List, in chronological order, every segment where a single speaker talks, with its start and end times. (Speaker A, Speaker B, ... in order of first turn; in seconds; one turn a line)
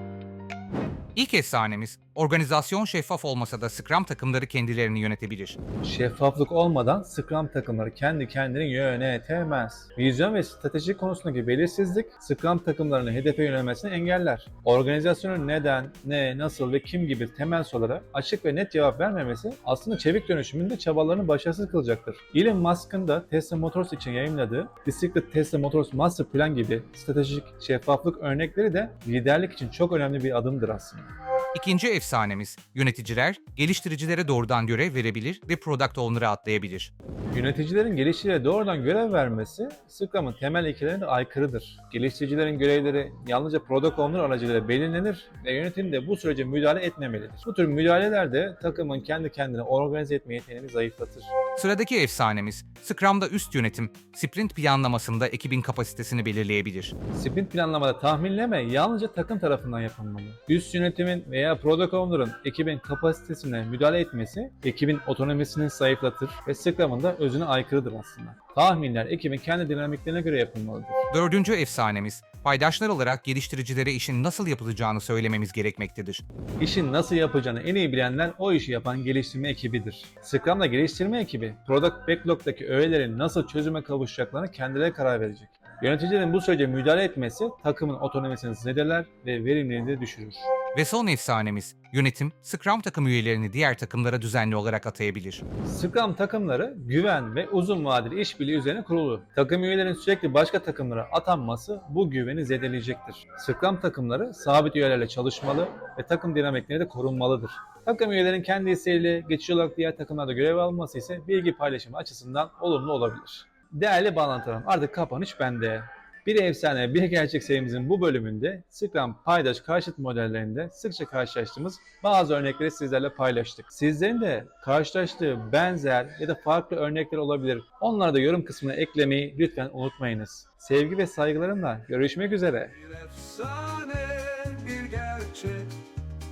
Speaker A: 1.1-5.6
Speaker B: 5.8-31.1
Speaker A: 31.5-36.9
Speaker B: 37.3-51.3
Speaker A: 51.5-57.0
Speaker B: 57.1-71.0
Speaker A: 71.1-76.2
Speaker B: 76.6-90.4
Speaker A: 90.7-95.4
Speaker B: 95.6-132.8
Speaker C: 132.9-135.8